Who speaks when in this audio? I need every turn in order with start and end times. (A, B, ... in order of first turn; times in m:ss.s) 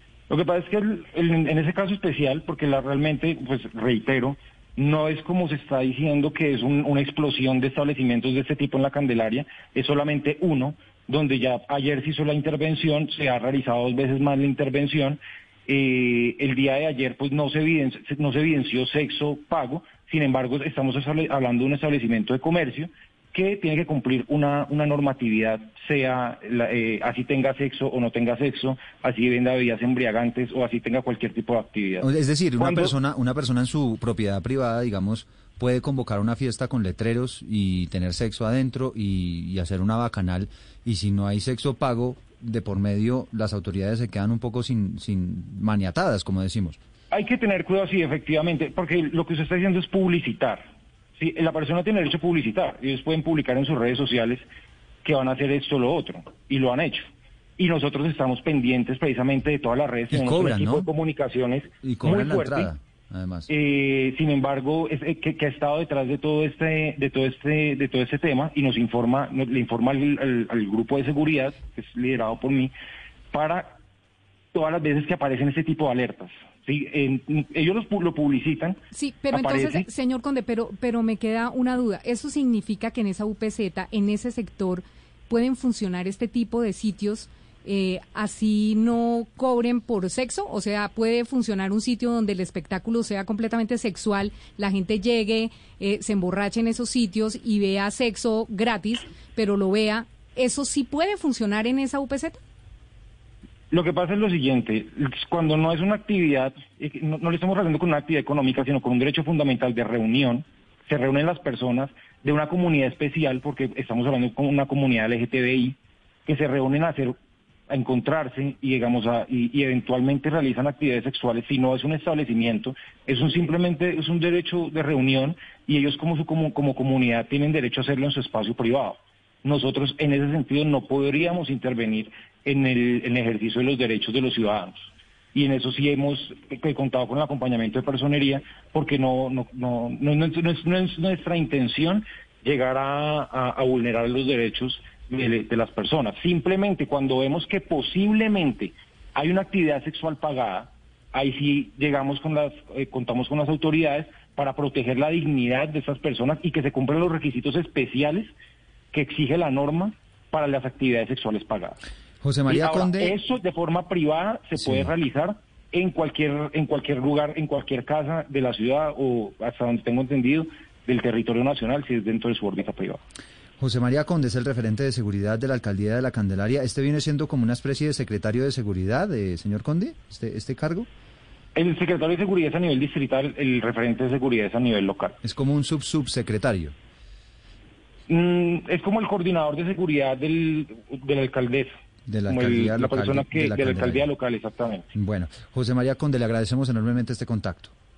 0:00.3-0:32.1 A
0:32.0-0:46.8 B
0:32.6-0:32.9 A
0:47.1-0:50.6 A
0:51.2-0:54.4 A
0:55.0-1:02.7 A
1:00.1-1:00.9 B
1:01.8-1:03.5 B
1:03.5-1:12.7 A
1:13.3-1:13.8 A
1:14.5-1:18.8 A
1:18.9-1:42.4 C
1:19.3-1:19.8 A
1:43.7-1:57.1 A
1:57.7-2:38.3 A
2:38.9-2:41.8 A
2:42.2-2:43.2 B
2:42.5-2:53.0 A
2:44.6-2:44.9 B
2:53.6-3:00.9 B
3:01.5-3:05.2 A
3:05.2-3:06.7 B
3:08.1-3:11.7 A
3:12.1-3:14.1 B
3:12.3-3:14.9 A
3:14.9-3:17.7 B